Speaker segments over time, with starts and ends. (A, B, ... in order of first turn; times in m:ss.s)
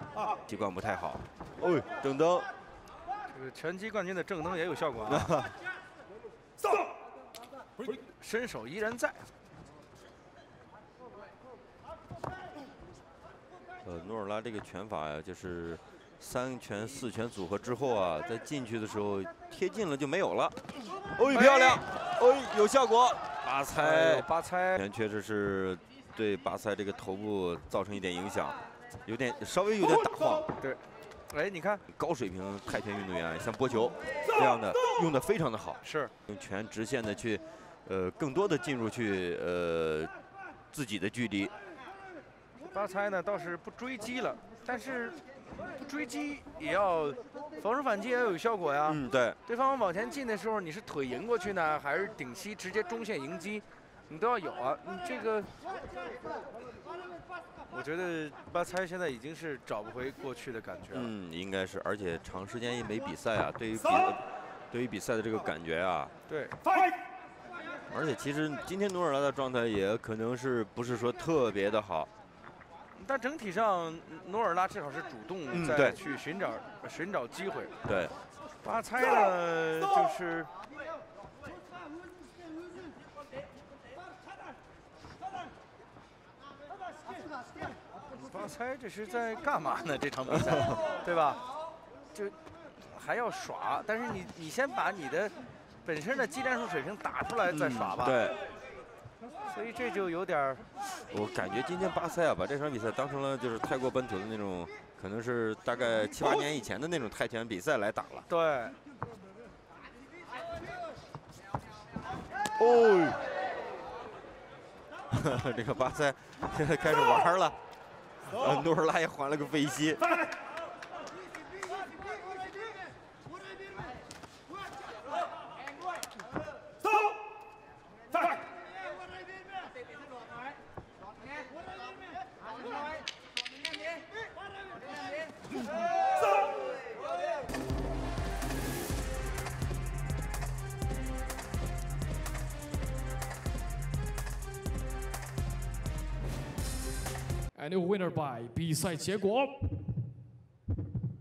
0:00.5-0:02.5 A
0:03.3-0:05.3 B
0:05.1-0:05.5 A
0:08.2-0:09.3 B
0:13.8-0:20.6 A
0:21.1-0:30.5 A
0:21.3-0:21.8 B
0:23.7-0:24.8 B
0:30.6-0:31.8 B
0:31.9-0:40.1 A
0:35.8-0:36.1 B
0:40.7-0:41.5 A
0:42.6-0:55.5 B
0:48.9-0:49.4 A
0:57.7-1:01.1 B
1:00.9-1:06.1 A
1:06.3-1:06.6 B
1:07.9-1:12.1 A
1:13.0-1:17.7 B
1:15.5-1:16.0 A
1:17.8-1:18.1 A
1:18.6-1:20.5 B
1:28.1-1:31.4 B
1:32.1-1:38.3 B
1:37.5-1:38.4 A
1:39.5-1:40.6 B
1:41.1-1:48.3 A
1:48.3-1:48.7 B
1:52.6-1:53.2 A
1:55.1-1:57.6 A
1:58.3-2:00.0 A
2:27.5-2:29.8 C